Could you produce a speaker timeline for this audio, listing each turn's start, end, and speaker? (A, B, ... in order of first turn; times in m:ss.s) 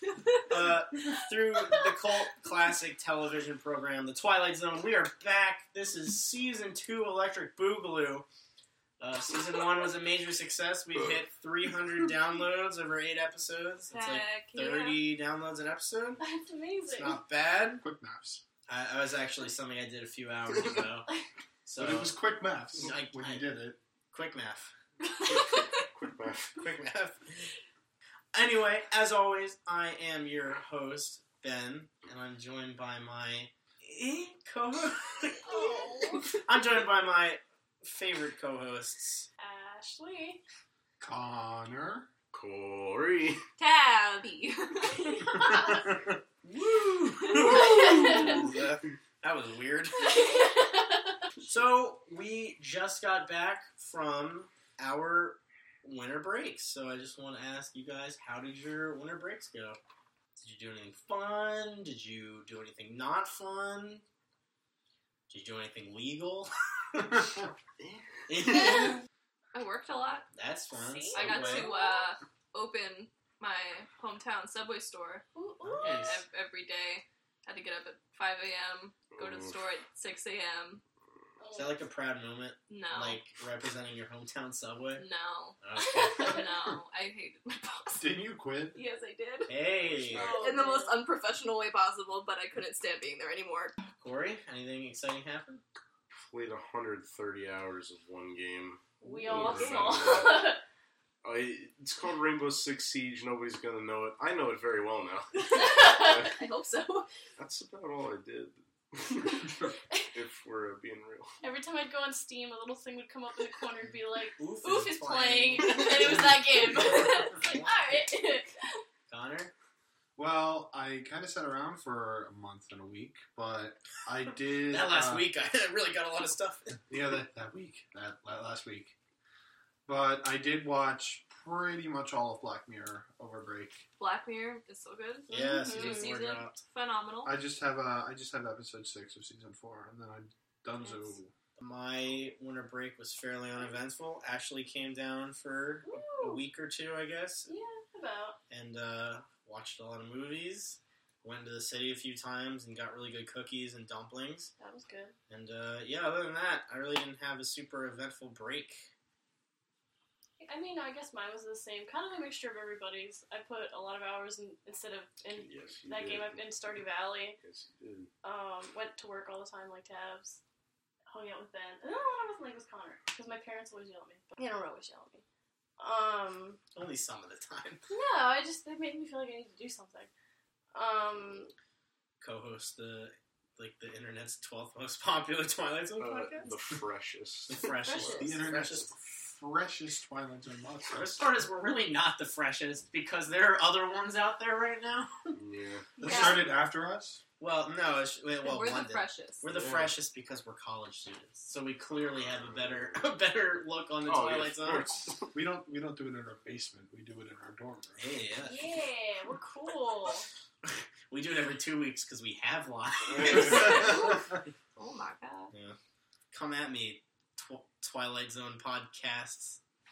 0:00.4-0:08.2 A
0:09.0-0:16.2 A
0:10.9-0:11.2 B
0:13.9-0:15.0 C
0:16.2-0:17.2 D
0:16.9-0:17.8 A
0:17.8-0:18.4 E
0:18.7-0:21.1 A
0:21.6-0:22.2 A
0:21.8-0:23.8 E
0:22.8-0:23.5 A
0:24.1-0:24.7 A
0:25.3-0:26.7 B
0:26.6-0:27.5 A
0:28.3-0:35.7 A
0:35.4-0:36.2 D
0:36.3-0:39.3 A
0:39.4-0:40.4 D
0:41.0-0:42.1 E
0:42.3-0:43.4 B
0:43.6-0:45.2 C
0:45.4-0:45.7 D
0:45.4-0:46.0 E
0:46.4-0:50.3 A
0:47.5-0:48.3 D
0:50.1-0:50.8 D
0:51.4-0:59.8 A
1:00.4-1:04.0 A
1:05.3-1:07.3 A
1:07.8-1:08.2 B
1:08.3-1:09.0 A
1:09.5-1:10.3 C
1:10.3-1:11.7 A
1:10.7-1:12.1 D
1:11.1-1:15.2 C
1:15.3-1:16.0 D
1:15.7-1:16.2 A
1:15.8-1:20.8 C
1:19.1-1:19.6 B
1:21.4-1:21.8 D
1:21.5-1:25.0 A
1:22.7-1:23.2 C
1:25.0-1:25.6 C
1:25.6-1:26.4 A
1:26.1-1:28.1 C
1:28.0-1:28.8 E
1:28.7-1:29.5 C
1:29.5-1:30.3 A
1:29.8-1:30.4 B
1:30.1-1:31.0 D
1:30.4-1:33.7 C
1:34.0-1:35.6 A
1:36.1-1:40.5 B
1:39.0-1:40.6 D
1:41.2-1:46.4 B
1:45.4-1:47.1 C
1:45.5-1:46.3 D
1:47.4-1:51.4 B
1:51.4-1:58.5 D
1:54.4-1:58.1 A
1:59.1-1:59.5 A
2:00.2-2:05.3 E
2:04.7-2:06.8 A
2:06.9-2:08.9 E
2:09.8-2:13.8 E
2:14.0-2:17.3 C
2:15.3-2:16.6 A
2:15.3-2:16.1 D
2:17.2-2:21.3 E
2:21.6-2:27.5 A
2:25.8-2:26.4 D
2:27.5-2:28.4 D
2:28.5-2:34.5 A
2:34.6-2:35.2 D
2:35.3-2:38.9 A
2:40.4-2:47.4 D
2:45.3-2:46.5 B
2:47.4-2:48.1 B
2:48.2-2:50.4 D
2:51.1-2:55.2 D
2:55.8-2:56.6 D
2:56.7-2:57.8 A
2:57.9-3:00.1 D
3:00.7-3:01.5 D
3:02.2-3:06.6 A
3:06.0-3:08.1 B
3:07.5-3:08.9 A
3:07.8-3:08.5 D
3:08.0-3:11.2 E
3:10.9-3:15.3 A
3:15.3-3:15.9 B
3:16.0-3:17.2 E
3:16.0-3:16.4 A
3:16.0-3:16.4 C
3:17.4-3:25.0 A
3:18.4-3:19.4 C
3:19.4-3:19.9 B
3:22.1-3:23.0 B
3:24.0-3:25.3 B
3:25.3-3:28.1 E
3:28.0-3:28.7 A
3:28.4-3:30.2 D
3:30.6-3:34.2 A
3:33.6-3:34.2 C
3:34.8-3:35.5 C
3:35.5-3:35.8 A
3:36.3-3:39.6 A